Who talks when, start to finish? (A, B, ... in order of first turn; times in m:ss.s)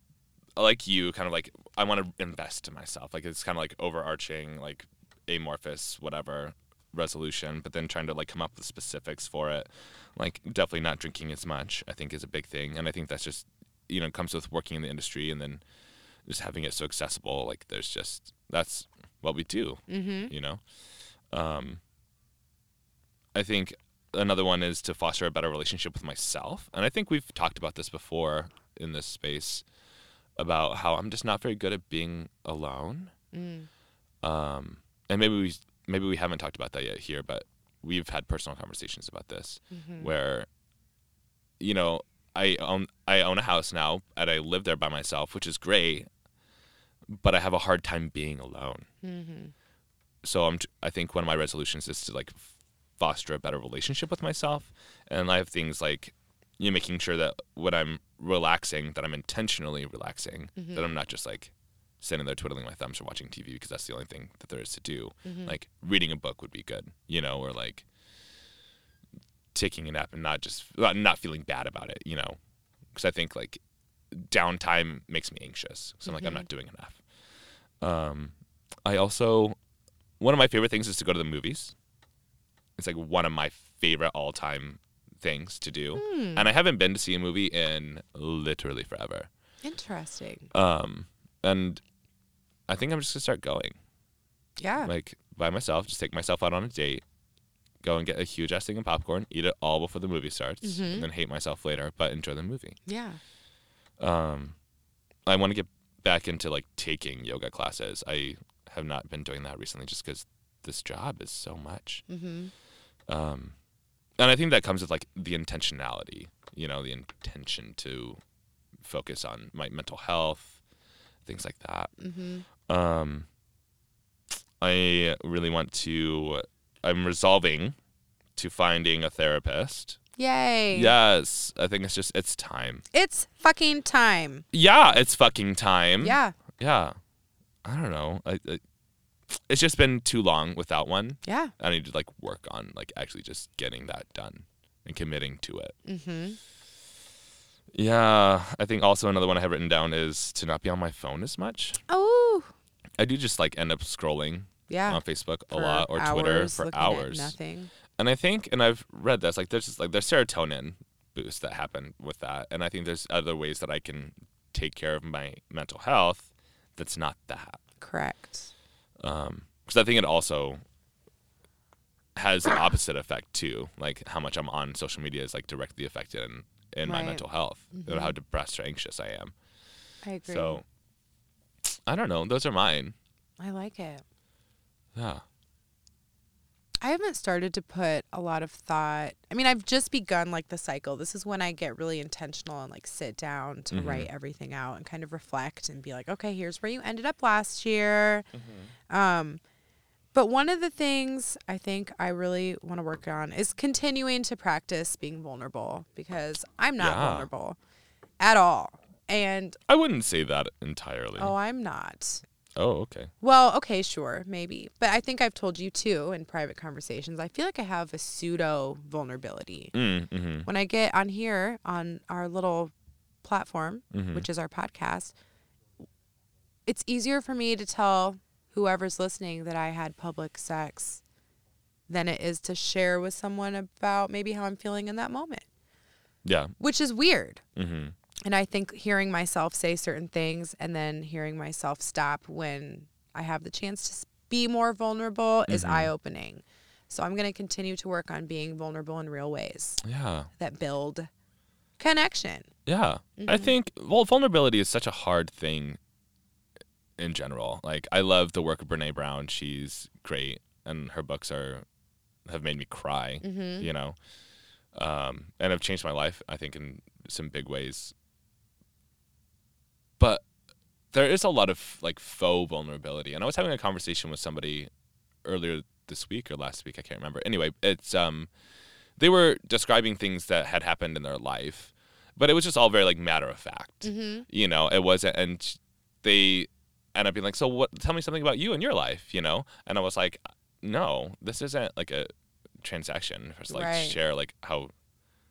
0:00.6-0:15.6 A
0:16.2-0:20.6 A
0:19.9-0:20.3 B
0:21.3-0:21.8 A
0:23.3-0:29.6 A
0:30.4-0:33.1 A
0:33.3-0:33.7 B
0:34.2-0:40.5 A
0:39.7-0:40.1 B
0:41.6-0:46.1 A
0:47.1-0:48.8 A
0:49.0-0:49.5 B
0:50.2-1:07.8 A
1:00.6-1:00.8 B
1:05.2-1:05.6 B
1:09.5-1:12.4 A
1:12.9-1:17.0 A
1:16.0-1:16.4 B
1:17.8-1:18.3 A
1:18.8-1:19.6 A
1:20.2-1:21.7 A
1:22.8-1:29.3 A
1:25.9-1:26.5 B
1:29.6-1:30.5 B
1:30.5-1:31.8 A
1:32.7-1:33.8 A
1:34.6-1:34.9 B
1:34.8-1:37.0 A
1:37.8-1:42.8 A
1:40.6-1:41.1 B
1:42.8-1:43.2 B
1:44.0-1:44.5 A
1:45.2-1:52.0 A
1:52.1-1:52.5 B
1:53.1-1:53.5 A
1:54.2-1:58.2 A
1:58.8-2:00.6 A
2:01.2-2:01.9 A
2:02.0-2:02.4 B
2:02.6-2:03.2 A
2:04.6-2:07.8 A
2:08.4-2:10.0 A
2:10.2-2:10.9 B
2:10.7-2:12.8 A
2:12.9-2:14.4 B
2:14.5-2:17.0 A
2:16.0-2:16.3 B
2:17.6-2:18.6 A
2:19.3-2:25.7 A
2:21.2-2:21.5 B
2:25.8-2:26.4 B
2:27.7-2:31.8 A
2:31.9-2:32.5 B
2:33.0-2:37.3 A
2:34.7-2:37.7 B
2:38.0-2:47.6 A
2:47.8-2:48.5 B
2:49.0-2:50.6 A
2:52.2-2:59.3 A
2:56.8-2:58.1 B
3:00.0-3:00.6 B
3:00.2-3:00.6 A
3:01.7-3:02.9 A
3:03.4-3:04.0 B
3:04.9-3:05.2 A
3:06.8-3:18.3 B
3:13.7-3:14.1 A
3:18.3-3:18.7 A
3:18.9-3:19.4 B
3:20.1-3:27.6 B
3:26.8-3:27.3 A
3:28.2-3:29.6 B
3:29.7-3:31.3 A
3:31.2-3:32.2 B
3:32.6-3:33.1 A
3:33.2-3:39.7 B
3:39.7-3:40.5 A
3:40.4-3:45.1 B
3:43.9-3:44.3 A
3:46.6-3:51.0 B
3:51.9-3:55.4 B
3:56.2-3:56.5 A
3:56.6-3:57.4 B
3:57.6-3:57.9 A
3:58.2-4:09.8 B
4:05.5-4:05.9 A
4:09.8-4:10.3 A
4:10.4-4:11.1 B
4:11.8-4:12.5 B
4:12.6-4:15.8 A
4:13.2-4:13.6 B
4:17.0-4:21.6 A
4:22.2-4:24.0 A
4:23.2-4:23.7 B
4:24.7-4:27.9 A
4:30.0-4:30.2 A
4:30.9-4:34.7 A
4:35.2-4:38.3 A
4:39.0-4:52.1 A
4:43.8-4:44.2 B
4:52.6-4:54.7 A
4:53.5-4:54.0 B